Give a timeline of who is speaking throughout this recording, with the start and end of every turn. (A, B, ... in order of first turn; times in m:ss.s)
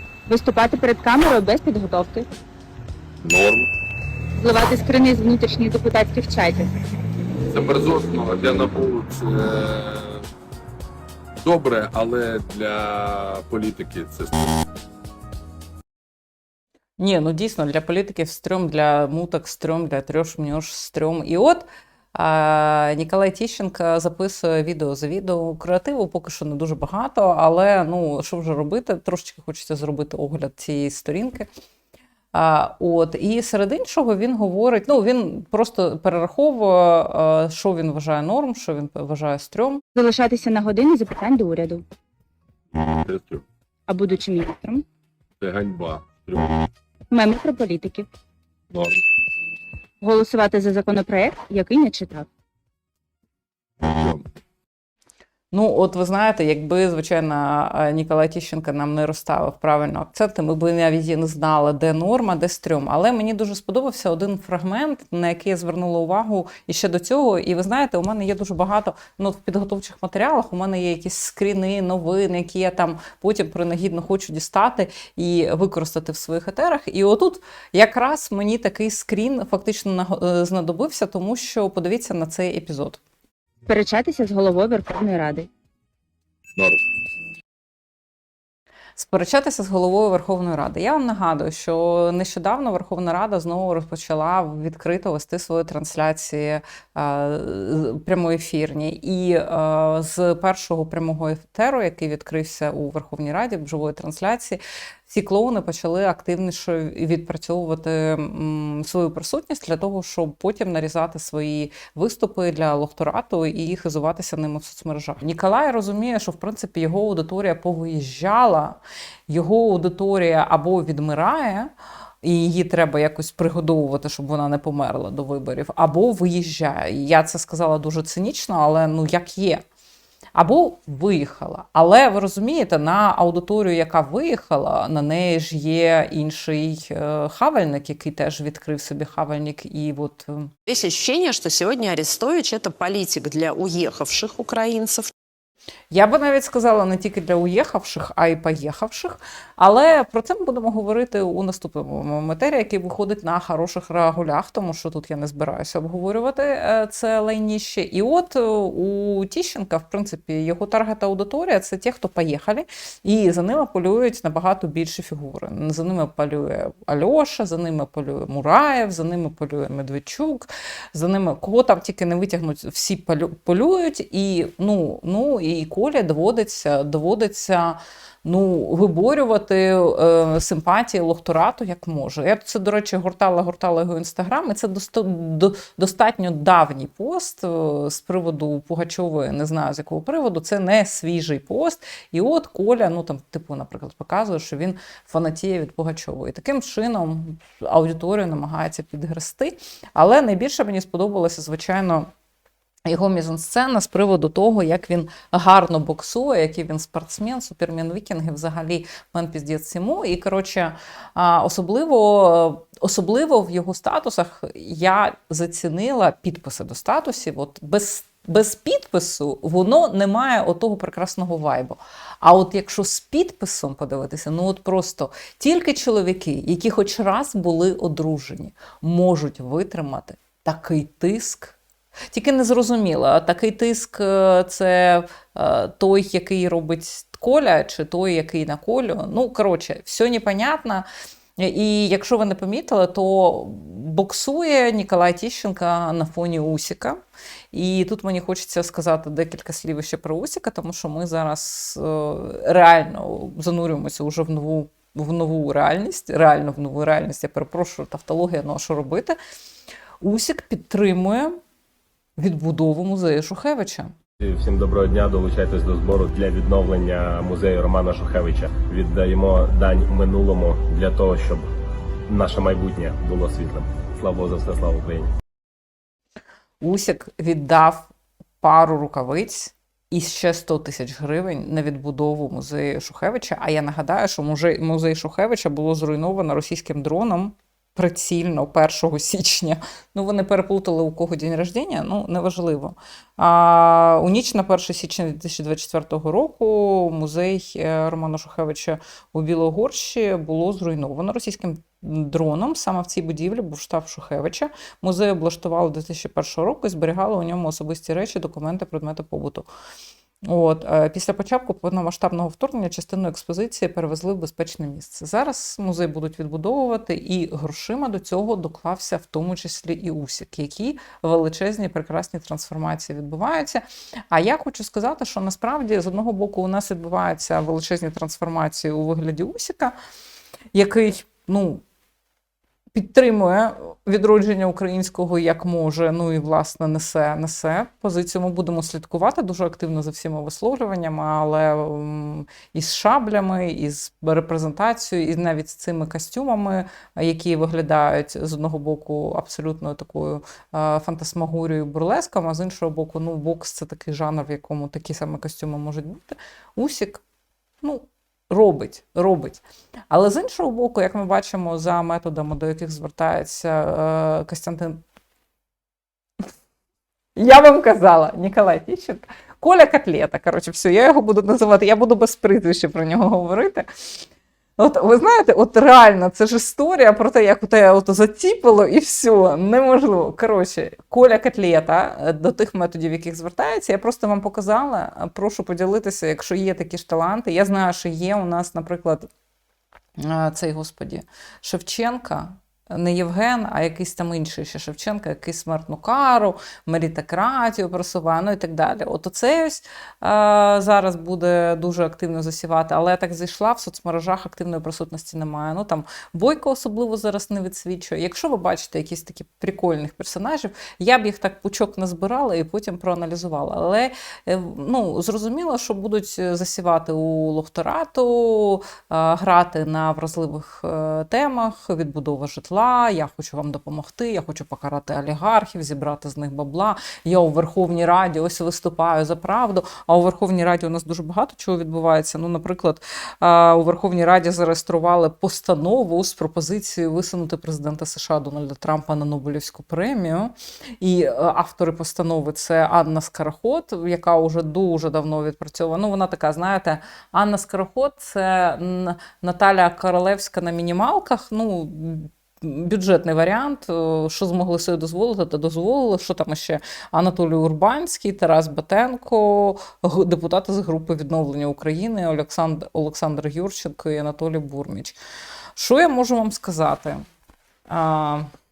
0:00.3-0:02.3 A
0:03.2-0:03.7 B
0:04.4-0:06.7 A
0:07.5-0:10.2 B
0:11.4-0:14.5 B
0:17.0-0:31.5 C
0:32.3-0:39.8 C
0:39.9-0:41.8 A
0:42.8-0:43.4 B
0:43.9-0:44.8 A
0:45.4-0:46.5 B
0:47.1-0:48.1 A
0:48.7-0:49.0 B
0:50.0-0:52.3 A
0:53.8-0:54.2 B
0:55.5-1:23.0 C
1:23.7-1:25.5 A
1:26.6-1:26.8 B
1:29.0-2:01.7 C
2:02.2-2:09.6 C
2:10.3-2:20.5 C
2:20.7-2:25.1 D
2:25.9-3:22.1 C
3:22.9-3:51.6 C
3:52.1-4:00.8 C
4:01.4-4:07.0 C
4:07.5-4:19.2 C
4:20.0-4:21.4 C
4:22.2-4:23.9 C
4:24.2-4:31.5 E
4:32.1-4:35.1 E
4:36.6-5:09.5 C
5:10.2-5:29.7 C
5:30.5-5:31.6 C
5:32.7-5:57.0 C
5:57.6-6:04.8 C
6:07.2-6:13.7 C
6:14.6-6:29.1 C
6:30.0-7:45.0 C
7:45.6-7:47.0 C
7:47.7-7:48.3 C